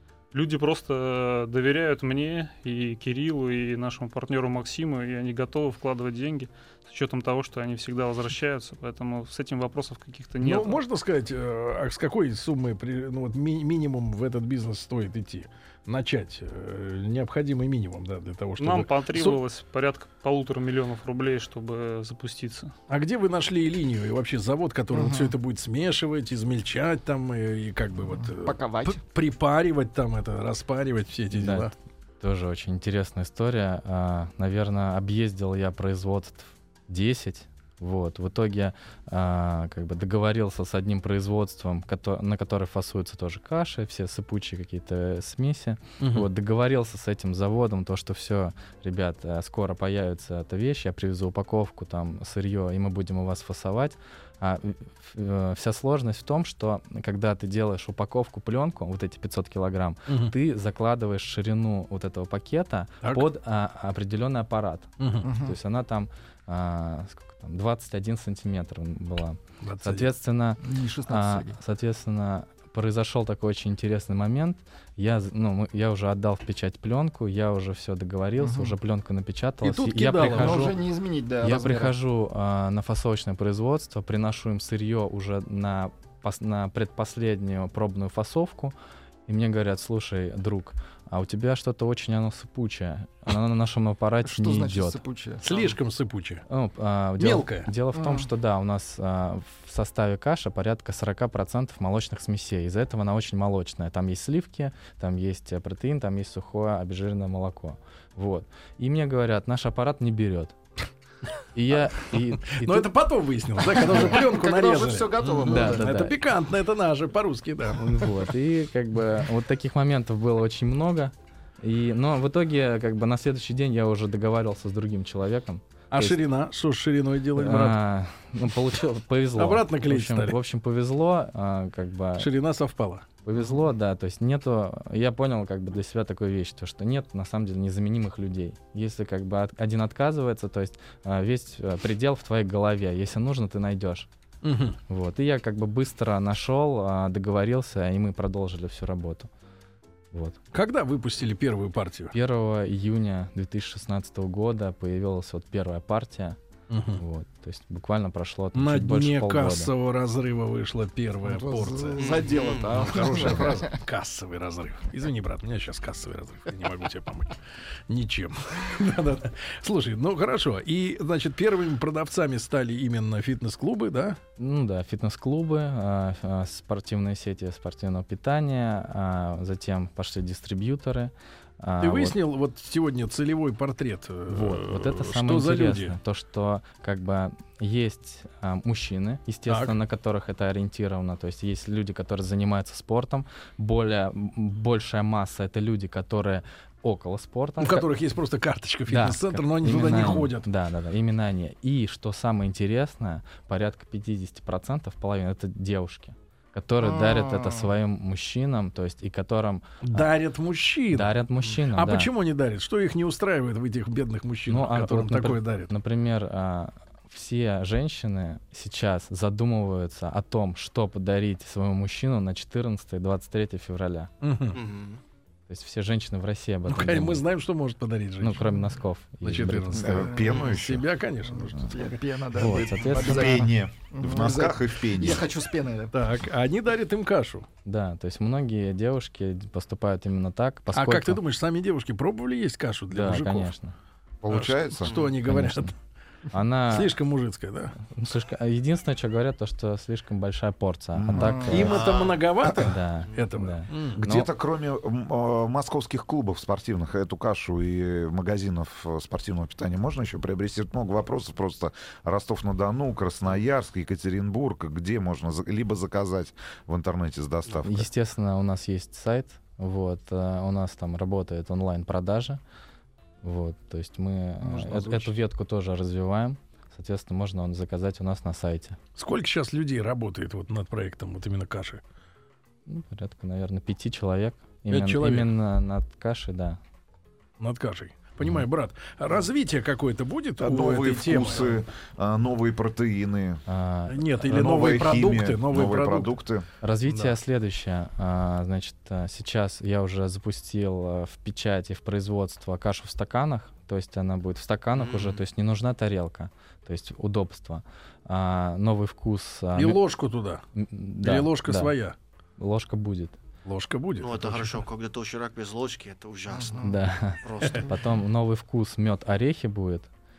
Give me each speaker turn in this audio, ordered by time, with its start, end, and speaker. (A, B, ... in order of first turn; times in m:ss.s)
0:00.3-0:10.8 A
0:10.4-0:19.4 B
0:18.6-0:22.7 A
0:22.9-0:31.7 B
0:24.9-0:25.3 C
0:28.1-0:29.0 C
0:31.3-1:20.8 D
0:46.0-0:46.3 B
1:00.1-1:00.3 B
1:03.0-1:03.3 B
1:05.0-1:05.3 B
1:05.2-1:05.6 C
1:09.6-1:10.1 B
1:10.6-1:11.6 C
1:18.4-1:18.8 C
1:19.6-1:20.7 B
1:20.2-1:21.9 C
1:21.4-1:28.7 D
1:29.3-1:35.0 D
1:34.2-1:35.4 C
1:35.4-1:36.4 B
1:36.5-1:50.6 D
1:37.2-1:37.7 B
1:37.9-1:38.3 C
1:51.5-1:52.9 D
1:52.4-1:58.2 B
1:53.8-1:56.0 C
1:53.8-1:54.1 D
1:55.4-1:56.2 D
1:57.8-2:06.2 D
2:05.9-2:07.8 B
2:07.4-2:12.3 D
2:09.4-2:10.4 B
2:12.2-2:13.0 B
2:13.2-2:24.1 D
2:24.4-2:24.8 B
2:24.9-2:29.3 D
2:30.1-2:30.4 D
2:30.5-2:32.1 B
2:32.1-2:36.4 D
2:36.7-2:37.0 B
2:36.9-2:39.7 D
2:38.5-2:47.4 B
2:41.2-2:43.8 C
2:42.0-2:42.9 E
2:47.9-2:54.2 B
2:54.4-3:02.2 D
3:01.8-3:06.0 B
3:04.3-3:17.9 D
3:09.5-3:09.8 B
3:17.6-3:20.5 B
3:18.9-3:30.1 D
3:26.8-3:27.7 C
3:29.8-3:31.1 B
3:30.9-3:32.1 D
3:31.7-3:35.7 B
3:34.5-3:44.1 D
3:44.2-3:44.6 B
3:44.5-3:45.0 E
3:45.5-3:47.2 D
3:46.7-3:48.6 B
3:48.2-3:50.1 D
3:49.2-3:52.0 B
3:49.7-3:50.9 F
3:49.9-3:50.4 C
3:51.3-3:56.0 C
3:52.3-3:53.5 D
3:52.9-3:55.2 F
3:55.9-3:57.4 B
3:57.6-4:01.2 D
4:00.7-4:03.5 B
4:02.9-4:03.7 D
4:04.2-4:05.0 F
4:04.3-4:05.7 B
4:04.8-4:05.2 E
4:05.2-4:05.7 D
4:06.3-4:07.0 D
4:06.7-4:07.7 B
4:07.9-4:11.8 D
4:10.9-4:11.8 F
4:11.2-4:11.7 C
4:11.4-4:14.1 B
4:11.7-4:12.2 E
4:12.6-4:14.3 D
4:13.1-4:13.3 E
4:14.0-4:27.9 F
4:27.6-4:32.4 D
4:33.2-4:38.8 D
4:34.4-4:35.1 C
4:39.0-4:41.8 B
4:42.7-4:46.6 D
4:44.7-4:45.3 B
4:47.4-4:51.6 B
4:50.4-4:53.4 F
4:53.5-4:54.2 D
4:53.9-4:56.1 B
4:54.2-4:56.4 F
4:56.6-5:09.8 D
4:56.9-4:57.1 B
5:04.7-5:05.2 E
5:09.6-5:10.4 B
5:10.6-5:11.7 D
5:11.0-5:11.9 B
5:12.4-5:13.2 D
5:13.4-5:14.6 B
5:14.0-5:17.7 E
5:16.3-5:16.8 C
5:16.6-5:19.9 D